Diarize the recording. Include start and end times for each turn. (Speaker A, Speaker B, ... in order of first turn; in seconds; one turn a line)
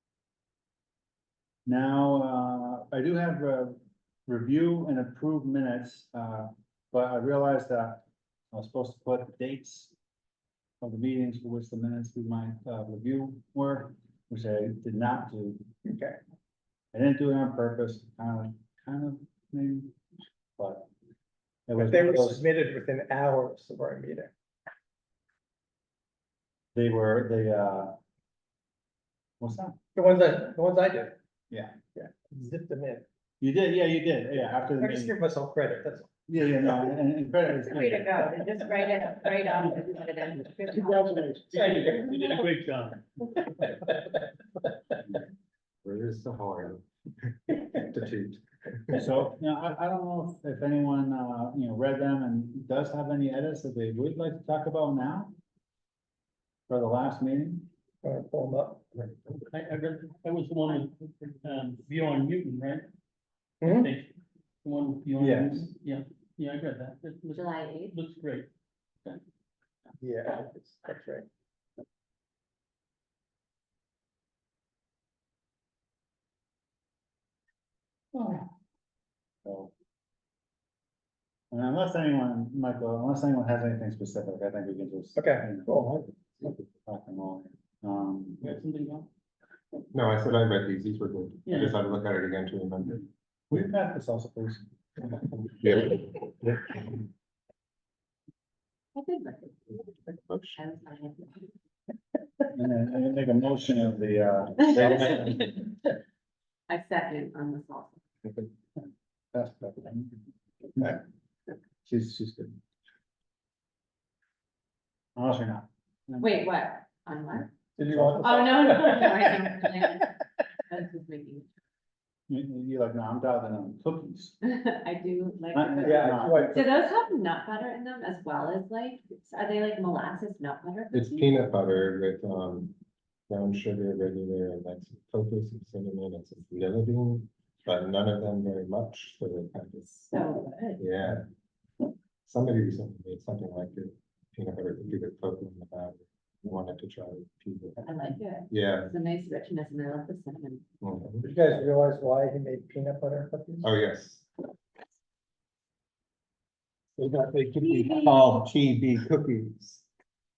Speaker A: 1.7-9.9
Speaker A: 10.8-15.7
Speaker B: 15.8-16.2
Speaker A: 16.9-19.9
Speaker A: 20.6-20.9
Speaker A: 21.7-22.4
Speaker B: 21.8-24.3
Speaker A: 26.7-28.0
Speaker A: 29.4-29.8
Speaker B: 29.9-31.2
Speaker A: 31.5-31.8
Speaker B: 31.9-33.1
Speaker A: 33.4-35.2
Speaker B: 34.8-36.1
Speaker A: 36.3-38.4
Speaker C: 37.5-41.4
Speaker A: 40.7-41.6
Speaker D: 41.5-43.1
Speaker E: 45.8-49.0
Speaker A: 48.9-55.3
Speaker A: 56.7-57.7
Speaker B: 58.0-59.0
Speaker D: 59.5-62.9
Speaker B: 63.6-63.9
Speaker D: 63.6-68.5
Speaker A: 65.2-65.7
Speaker C: 67.3-68.0
Speaker B: 70.0-71.3
Speaker A: 78.2-78.5
Speaker A: 79.5-79.7
Speaker A: 81.5-86.0
Speaker B: 85.2-86.0
Speaker A: 86.8-88.5
Speaker D: 88.4-89.1
Speaker E: 89.9-93.0
Speaker D: 91.5-91.8
Speaker A: 93.5-94.7
Speaker E: 95.5-96.8
Speaker C: 99.0-99.8
Speaker E: 100.3-100.6
Speaker C: 100.6-101.5
Speaker A: 102.5-105.5
Speaker C: 104.7-105.7
Speaker E: 104.7-105.6
Speaker C: 106.7-108.0
Speaker A: 109.3-110.2
Speaker A: 111.8-112.6
Speaker A: 115.2-116.5
Speaker C: 116.2-117.5
Speaker B: 117.8-119.2
Speaker C: 118.2-120.1
Speaker C: 120.7-121.5
Speaker A: 122.3-124.4
Speaker C: 124.4-131.4
Speaker A: 125.5-126.6
Speaker B: 125.8-126.7
Speaker E: 130.9-132.8
Speaker E: 133.3-140.1
Speaker C: 140.1-140.8
Speaker E: 140.8-141.2
Speaker E: 142.3-147.8
Speaker C: 147.8-150.7
Speaker E: 148.5-148.9
Speaker E: 150.8-151.3
Speaker B: 151.2-153.7
Speaker E: 153.6-154.3
Speaker E: 157.0-159.9
Speaker C: 157.6-158.3